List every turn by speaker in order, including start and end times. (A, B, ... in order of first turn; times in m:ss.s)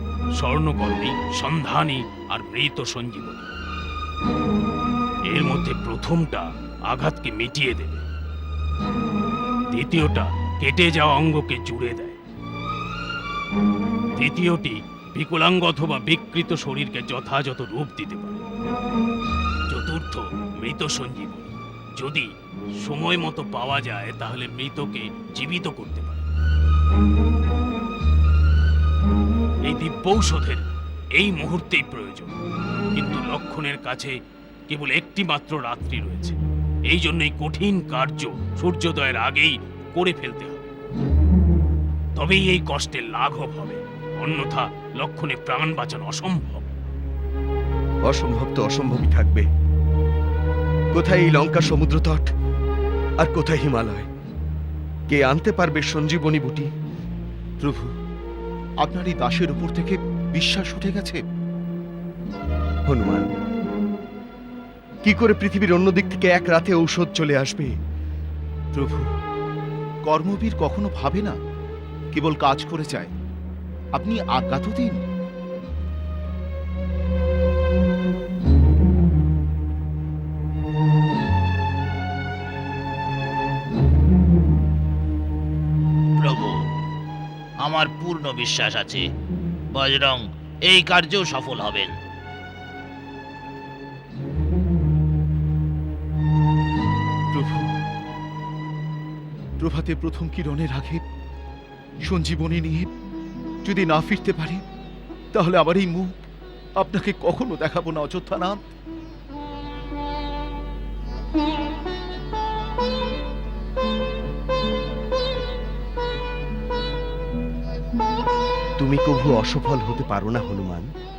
0:00.4-0:03.5 A
0:05.3-0:08.1 A
0:09.7-0:12.2 A
0:14.2-0:18.4 A
0:19.7-0:26.2 A
0:29.6-0:32.3 A
0:32.9-0:34.2 A
0:34.7-0:36.4 A
0:36.9-0:40.7 A
0:42.2-0:46.7 A
0:48.0-0:49.5 B
0:50.9-0:52.3 B
0:53.2-0:54.1 B
0:55.1-0:56.7 B
0:57.6-0:57.9 C
0:58.8-1:01.2 C
1:02.9-1:03.3 B
1:05.0-1:07.7 B
1:08.8-1:09.1 C
1:10.1-1:11.4 C
1:12.1-1:13.1 C
1:13.9-1:15.0 C
1:26.2-1:26.7 D
1:27.6-1:29.1 D
1:29.7-1:31.9 D
1:37.3-1:37.7 C
1:39.6-1:41.0 C
1:42.0-1:42.9 C
1:43.6-1:44.6 C
1:45.3-1:46.1 C
1:46.8-1:48.6 C
1:58.8-2:00.9 B